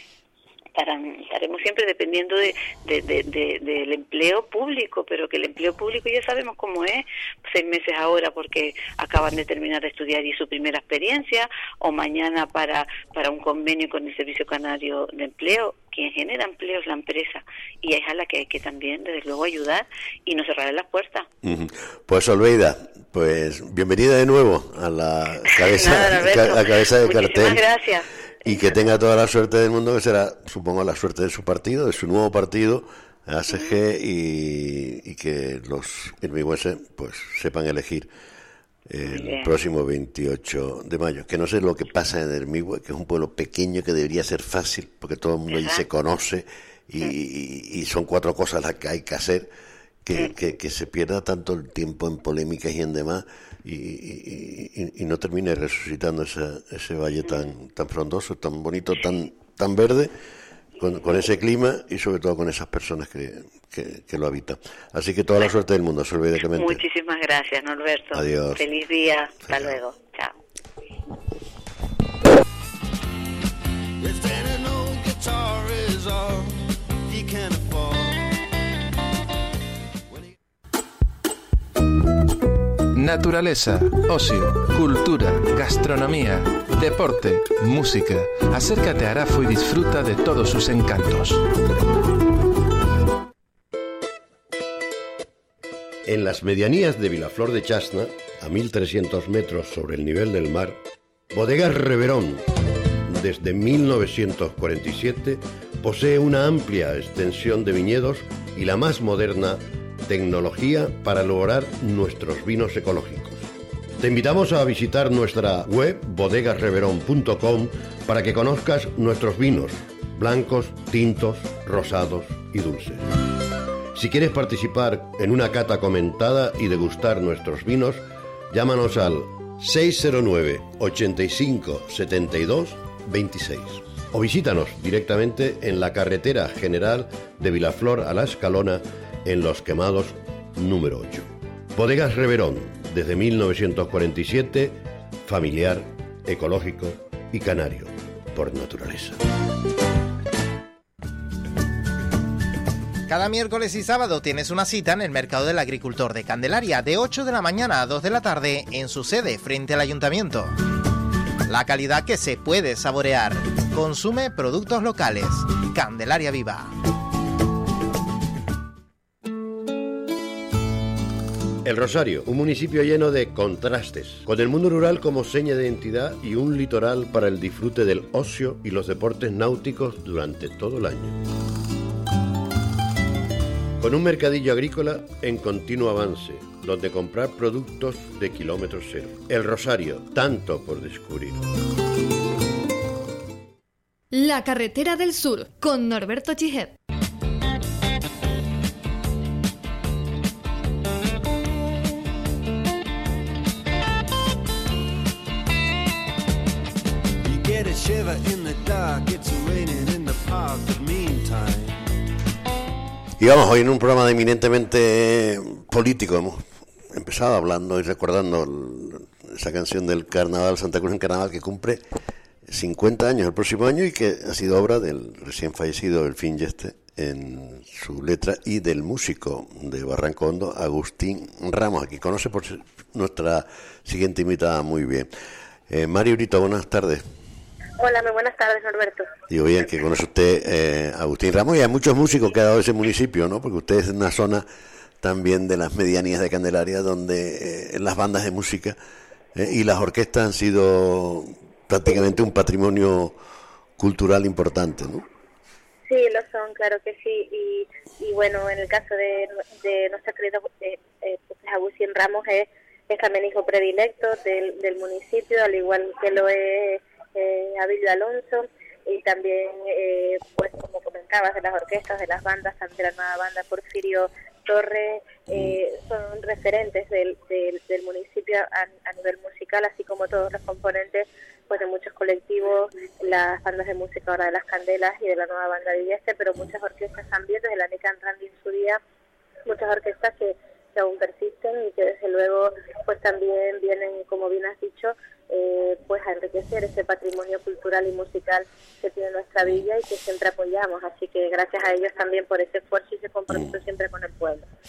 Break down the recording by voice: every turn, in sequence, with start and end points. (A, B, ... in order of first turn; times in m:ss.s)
0:00.7-0:21.3 A
0:21.4-0:27.6 B
0:25.5-0:28.8 A
0:28.4-0:38.1 B
0:38.9-0:49.5 B
0:39.1-0:39.5 A
0:45.5-0:45.8 A
0:50.0-1:00.1 B
1:00.8-1:06.8 B
1:06.5-1:10.4 A
1:08.1-1:08.6 B
1:09.5-1:09.8 B
1:14.0-1:18.3 C
1:22.9-1:31.4 D
1:36.0-1:40.8 E
1:41.3-1:42.5 E
1:43.0-1:53.4 E
1:54.0-2:03.0 E
2:03.9-2:29.2 E
2:33.1-2:40.5 F
2:41.5-2:46.7 F
2:51.6-3:01.2 E
3:03.8-3:11.4 E
3:14.1-3:16.7 G
3:27.2-3:31.9 C
3:33.2-3:41.8 B
3:42.5-3:55.1 B
3:55.7-3:57.0 B
3:57.8-3:59.1 H
3:59.3-4:04.4 B
4:05.0-4:08.8 B
4:09.3-4:13.2 B
4:13.8-4:15.0 B
4:15.9-4:48.8 H
4:49.4-5:04.4 H